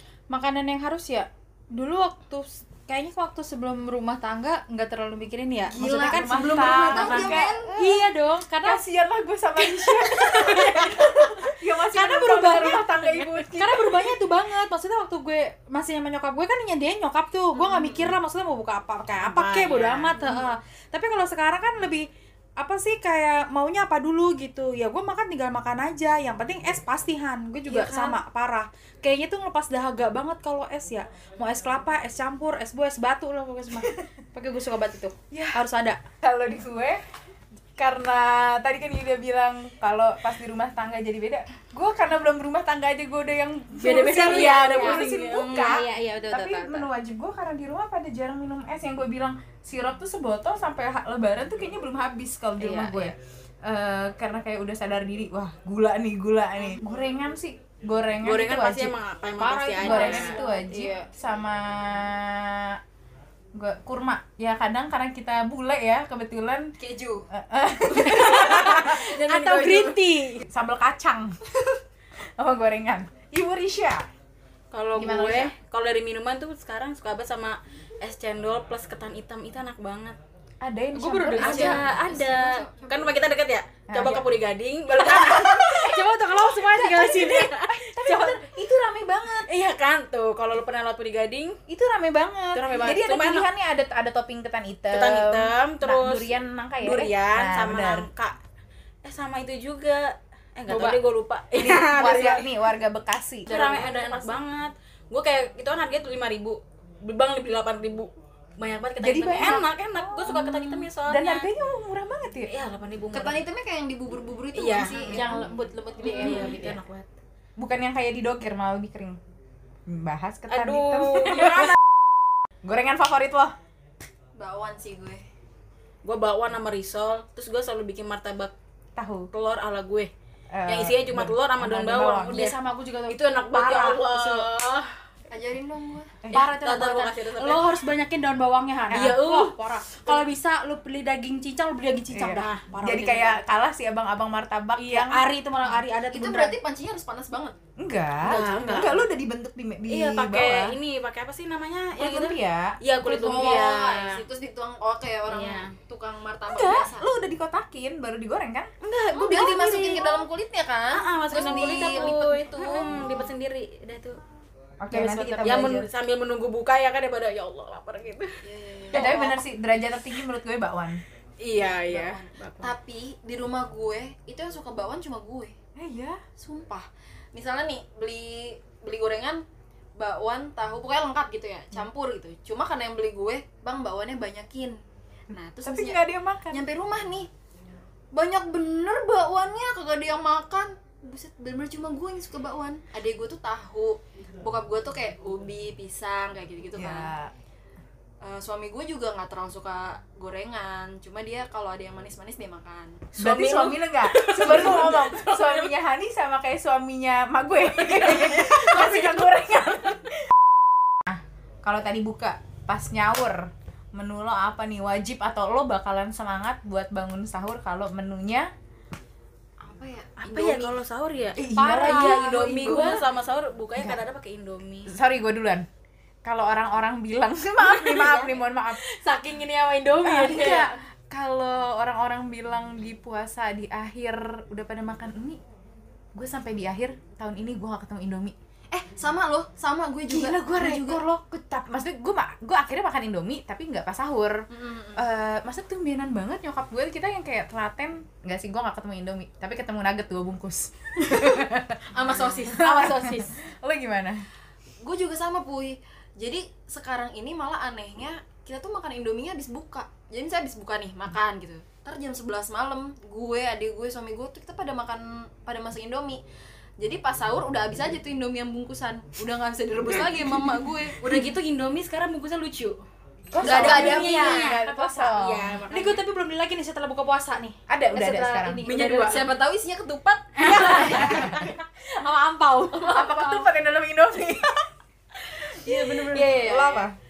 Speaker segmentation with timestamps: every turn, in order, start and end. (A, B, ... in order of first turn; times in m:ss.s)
0:00.3-0:08.8 A
0:05.7-0:07.9 B
0:05.8-0:07.6 C
0:08.6-0:14.1 C
0:09.6-0:12.9 A
0:13.5-0:36.0 A
0:17.6-0:18.1 D
0:19.2-0:20.3 D
0:27.7-0:28.2 D
0:35.3-0:35.6 C
0:36.2-0:37.0 C
0:37.8-0:59.0 C
0:43.8-0:45.0 A
0:43.8-0:46.0 D
0:45.6-0:46.8 B
0:52.6-0:53.1 D
0:58.2-1:00.4 D
0:59.4-1:01.0 A
0:59.8-1:02.8 C
1:03.6-1:06.7 C
1:06.8-1:07.3 B
1:07.3-1:09.1 C
1:08.0-1:10.4 A
1:08.0-1:10.1 D
1:10.4-1:11.4 C
1:12.4-1:14.1 C
1:14.7-1:20.2 D
1:14.9-1:15.5 C
1:20.6-1:21.8 C
1:20.9-1:21.8 A
1:21.4-1:25.9 D
1:21.5-1:23.1 B
1:23.9-1:24.3 C
1:25.0-1:26.7 C
1:25.3-1:27.6 A
1:26.6-1:28.4 D
1:27.7-1:29.5 C
1:29.5-1:31.6 D
1:31.7-1:38.1 C
1:32.5-1:33.5 D
1:34.9-1:38.4 D
1:39.0-1:42.5 D
1:40.7-1:41.0 C
1:41.5-1:44.1 C
1:43.5-1:51.5 D
1:49.0-1:52.5 C
1:52.5-1:53.4 D
1:53.1-1:55.5 B
1:54.5-1:55.3 D
1:55.1-1:56.7 C
1:55.3-1:56.8 A
1:56.0-1:57.1 D
1:56.2-1:56.6 B
1:57.6-1:59.2 C
1:59.8-2:01.8 C
2:00.5-2:01.7 D
2:02.6-2:03.5 C
2:04.3-2:05.2 B
2:06.0-2:08.5 D
2:09.0-2:09.3 C
2:09.3-2:10.1 D
2:10.5-2:12.4 C
2:10.7-2:12.5 D
2:12.1-2:14.5 A
2:13.1-2:14.9 D
2:15.3-2:16.2 B
2:16.3-2:23.4 A
2:16.3-2:17.7 D
2:18.9-2:19.2 C
2:18.9-2:20.3 D
2:22.1-2:25.8 C
2:24.8-2:26.6 A
2:26.1-2:27.6 B
2:27.8-2:30.8 C
2:28.2-2:29.0 D
2:28.3-2:28.9 A
2:29.9-2:34.2 D
2:31.9-2:33.7 C
2:33.0-2:37.1 B
2:35.3-2:35.7 D
2:36.5-2:38.7 C
2:38.8-2:40.2 D
2:39.1-2:43.3 B
2:40.9-2:44.2 D
2:44.8-2:45.9 C
2:44.9-2:45.6 A
2:44.9-2:48.4 D
2:48.4-2:49.3 B
2:48.9-2:51.0 C
2:51.4-2:52.7 D
2:51.5-2:55.5 B
2:55.8-2:56.2 C
2:56.4-2:59.4 B
3:00.0-3:04.8 B
3:05.3-3:07.3 B
3:05.6-3:06.6 C
3:08.1-3:17.1 B
3:16.8-3:17.3 C
3:18.2-3:23.3 B
3:23.2-3:30.0 C
3:23.2-3:25.7 D
3:28.2-3:29.0 D
3:31.0-3:38.5 C
3:39.6-3:40.8 B
3:40.2-3:44.9 D
3:41.4-3:43.0 C
3:41.5-3:43.0 A
3:44.8-3:45.6 C
3:46.2-3:48.8 C
3:47.6-3:48.4 D
3:48.7-3:50.7 A
3:50.0-3:55.4 C
3:50.3-3:50.6 D
3:56.2-3:58.3 C
3:58.7-4:01.0 B
4:00.1-4:11.8 C
4:04.5-4:05.0 B
4:11.1-4:11.4 B
4:11.9-4:13.2 B
4:12.6-4:14.2 C
4:12.7-4:13.3 D
4:14.8-4:26.2 B
4:26.8-4:31.2 B
4:31.0-4:32.8 D
4:33.3-4:35.6 C
4:33.4-4:34.4 B
4:33.4-4:35.1 A
4:33.4-4:36.0 D
4:35.7-4:39.3 A
4:37.7-4:38.8 C
4:38.6-4:41.4 B
4:40.4-4:43.5 A
4:40.5-4:40.8 D
4:41.0-4:41.5 C
4:42.8-4:44.5 C
4:45.6-4:46.9 C
4:45.6-4:46.9 A
4:45.7-4:46.2 D